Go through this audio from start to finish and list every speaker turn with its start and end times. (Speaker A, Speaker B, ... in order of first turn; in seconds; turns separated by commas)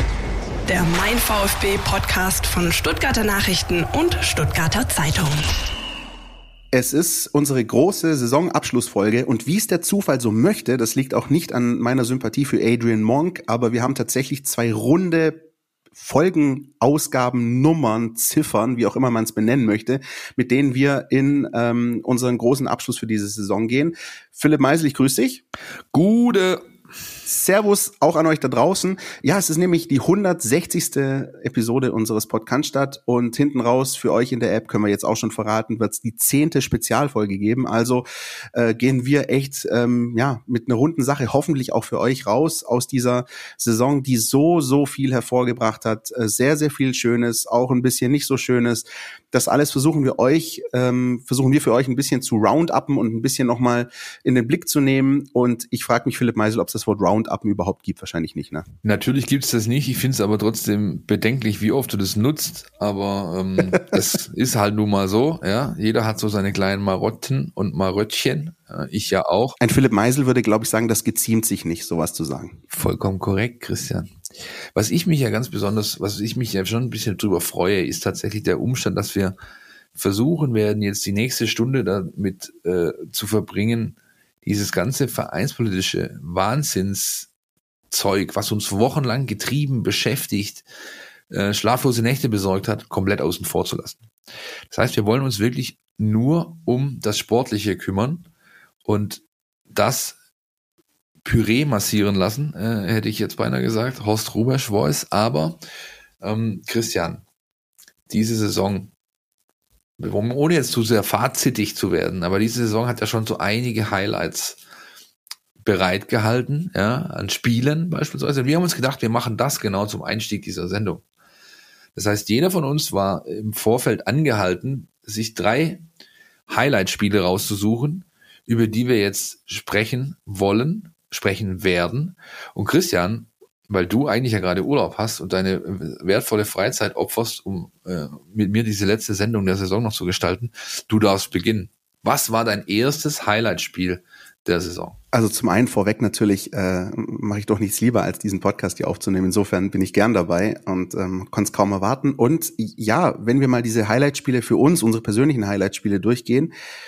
Speaker A: 0.7-5.5, Speaker B: 6.7-15.4, Speaker B: 15.9-25.4, Speaker C: 25.9-26.6, Speaker B: 27.3-58.7, Speaker C: 58.8-69.6, Speaker B: 69.6-72.6, Speaker C: 72.7-74.1, Speaker C: 74.7-79.3, Speaker C: 79.9-87.3, Speaker C: 87.9-90.6, Speaker C: 91.3-94.0, Speaker C: 94.7-98.2, Speaker C: 98.8-100.2, Speaker C: 101.2-105.6, Speaker C: 106.2-107.2, Speaker C: 108.1-108.9, Speaker C: 110.0-114.6, Speaker C: 115.6-121.0, Speaker C: 121.9-125.8, Speaker C: 126.5-145.0, Speaker B: 145.1-156.5